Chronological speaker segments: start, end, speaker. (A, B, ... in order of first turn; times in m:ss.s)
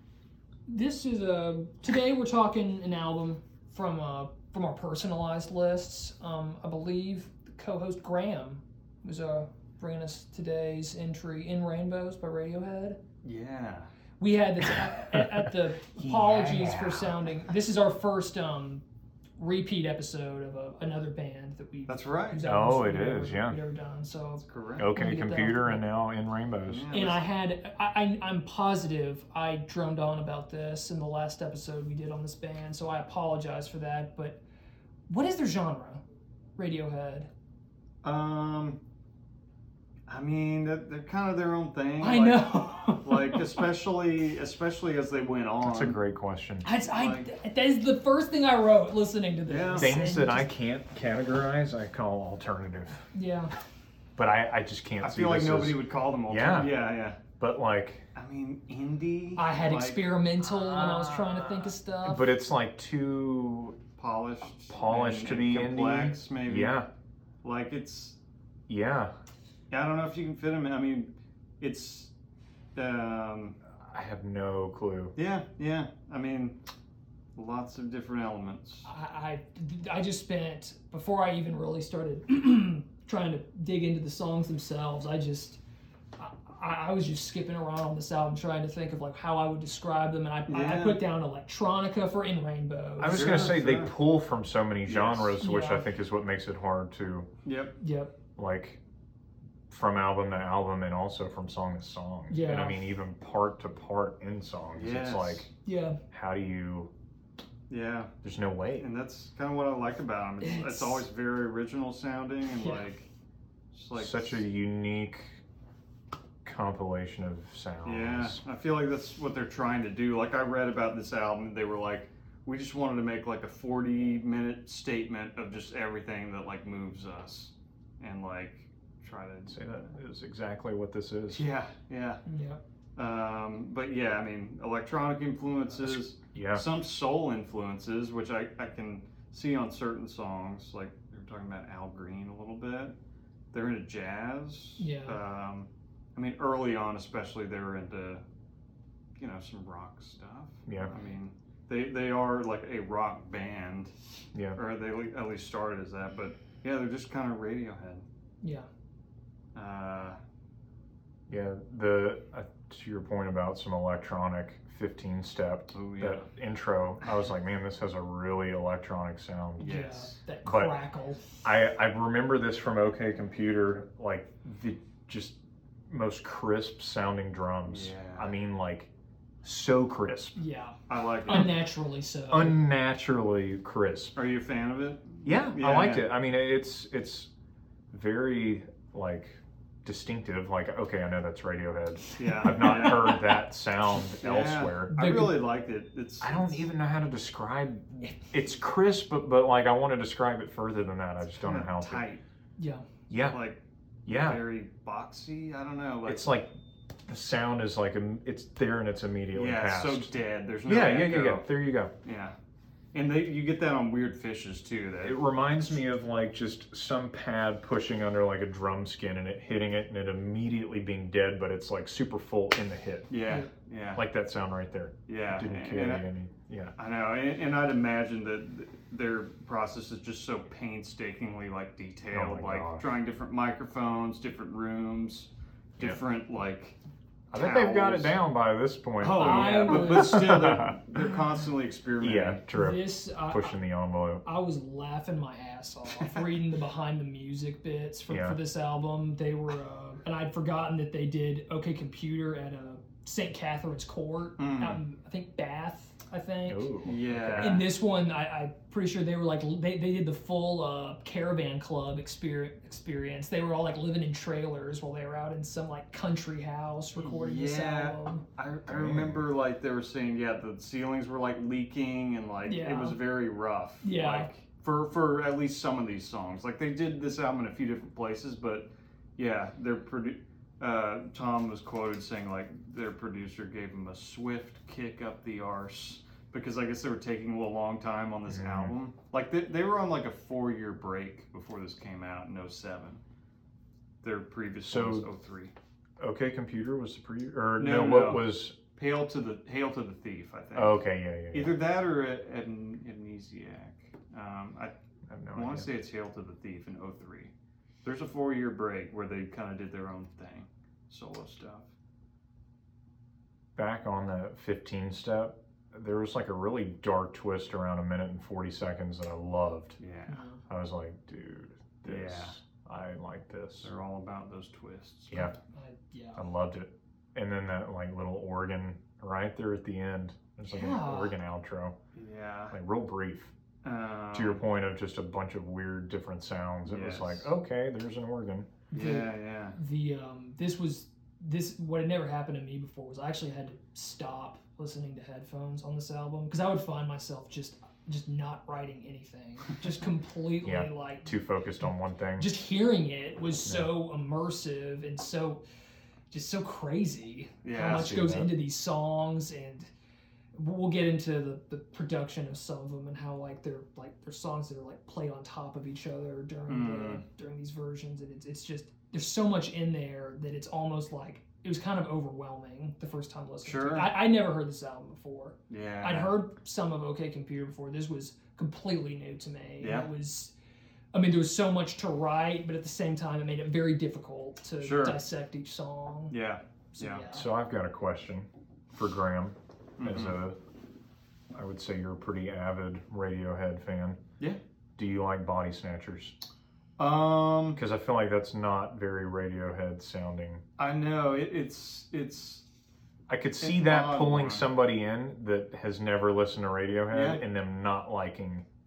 0:00.7-0:13.0 A
0:13.2-0:13.9 B
0:14.2-0:18.8 A
0:14.7-0:17.1 C
0:19.4-0:25.8 A
0:21.9-0:22.4 B
0:22.4-0:23.6 C
0:24.4-0:24.9 B
0:24.8-0:26.9 C
0:26.7-0:27.2 B
0:26.9-0:34.4 A
0:35.1-0:36.0 A
0:36.6-0:37.3 A
0:38.0-0:38.8 B
0:40.1-0:46.0 B
0:42.0-0:43.6 A
0:45.6-0:46.7 C
0:46.6-0:50.5 A
0:46.9-0:47.3 B
0:49.5-0:50.0 B
0:49.8-0:53.1 C
0:53.1-0:53.5 A
0:54.2-0:56.7 C
0:55.0-0:57.2 B
0:57.4-0:58.0 C
0:58.1-1:01.7 B
0:59.4-1:02.3 A
1:02.0-1:03.8 C
1:04.0-1:06.7 B
1:04.7-1:06.9 C
1:07.4-1:08.2 B
1:08.7-1:09.1 C
1:09.7-1:12.1 B
1:12.7-1:13.6 B
1:13.7-1:15.1 C
1:15.2-1:16.6 B
1:17.4-1:18.9 B
1:18.8-1:25.6 A
1:26.2-1:33.5 A
1:30.5-1:31.0 B
1:33.0-1:37.3 C
1:33.0-1:33.9 B
1:34.8-1:35.4 B
1:35.4-1:35.9 A
1:37.4-1:37.7 B
1:37.8-1:38.1 A
1:38.4-1:38.8 C
1:39.7-1:45.5 C
1:42.3-1:42.8 A
1:44.7-1:45.5 B
1:45.6-1:46.0 A
1:46.1-1:46.9 C
1:47.7-1:48.1 B
1:48.2-1:48.9 C
1:48.8-1:53.1 B
1:50.4-1:51.0 A
1:52.6-1:52.8 A
1:53.7-1:54.4 B
1:53.9-1:55.4 C
1:56.4-1:58.4 C
1:57.8-2:09.8 B
2:09.5-2:11.4 C
2:11.3-2:12.2 B
2:12.2-2:12.6 A
2:13.0-2:23.0 B
2:15.8-2:16.6 C
2:23.5-2:28.2 B
2:24.8-2:25.2 A
2:29.2-2:33.9 B
2:30.7-2:30.9 C
2:34.5-2:38.0 B
2:38.4-2:38.7 A
2:39.5-2:40.2 B
2:41.3-2:49.7 C
2:45.7-2:46.3 B
2:49.6-2:50.2 B
2:49.6-2:51.2 A
2:50.4-2:50.7 C
2:51.4-2:58.9 C
2:57.7-2:58.3 B
2:59.4-3:00.4 C
3:00.4-3:02.6 A
3:00.9-3:01.5 B
3:02.3-3:04.2 C
3:04.1-3:06.0 B
3:05.2-3:07.3 C
3:07.9-3:14.9 C
3:12.2-3:13.2 B
3:12.3-3:13.2 A
3:14.1-3:16.7 B
3:14.9-3:15.4 A
3:16.2-3:22.0 C
3:21.3-3:22.2 B
3:22.6-3:22.8 A
3:23.1-3:23.4 C
3:23.3-3:26.4 B
3:24.0-3:24.4 C
3:26.0-3:26.5 C
3:27.0-3:30.1 C
3:29.3-3:31.5 B
3:30.6-3:31.9 C
3:32.0-3:32.3 B
3:32.9-3:35.2 B
3:35.0-3:43.1 C
3:43.1-3:44.0 B
3:43.9-3:46.7 C
3:45.1-3:46.0 B
3:46.8-3:56.8 B
3:52.1-3:52.9 C
3:57.3-3:58.2 B
3:57.3-4:00.8 C
3:59.0-4:02.4 B
3:59.2-4:00.5 A
4:02.0-4:04.2 C
4:02.5-4:03.6 A
4:04.2-4:16.7 A
4:08.1-4:08.4 C
4:14.4-4:14.8 B
4:16.5-4:17.6 C
4:16.8-4:17.7 B
4:17.4-4:28.2 A
4:27.0-4:53.0 B
4:28.7-4:29.2 C
4:32.4-4:33.0 A
4:33.8-4:34.3 A
4:48.3-4:48.7 C
4:54.0-4:55.5 B
4:54.6-4:55.1 C
4:56.0-4:58.5 C
4:57.6-5:04.7 B
5:00.5-5:01.6 C
5:05.1-5:05.7 C
5:05.3-5:07.3 B
5:07.8-5:11.7 B
5:13.6-5:19.8 C
5:19.8-5:20.2 B
5:20.1-5:20.4 A
5:20.5-5:23.7 C
5:21.8-5:22.4 B
5:23.6-5:25.2 B
5:25.2-5:26.2 A
5:26.2-5:31.8 C
5:30.4-5:31.1 A
5:31.9-5:32.6 B
5:32.5-5:33.3 C
5:33.6-5:34.4 B
5:34.1-5:38.5 C
5:36.6-5:37.3 B
5:38.7-5:51.2 A
5:38.7-5:39.6 B
5:50.4-5:52.3 C
5:52.2-5:55.4 A
5:56.1-5:59.7 A
5:57.4-5:57.9 B
5:57.5-5:58.3 C
6:00.3-6:20.3 A
6:06.5-6:07.0 B
6:13.4-6:14.0 B
6:15.5-6:16.2 B
6:19.6-6:19.9 B
6:20.9-6:26.1 A
6:24.6-6:25.0 B
6:26.1-6:27.0 B
6:26.7-6:27.3 A
6:27.1-6:30.4 C
6:29.8-6:30.2 B
6:31.3-6:34.0 C
6:34.8-6:36.2 C
6:36.8-6:37.6 B
6:37.5-6:40.4 C
6:40.6-6:42.4 B
6:43.1-6:48.4 C
6:43.4-6:44.5 B
6:46.9-6:47.2 B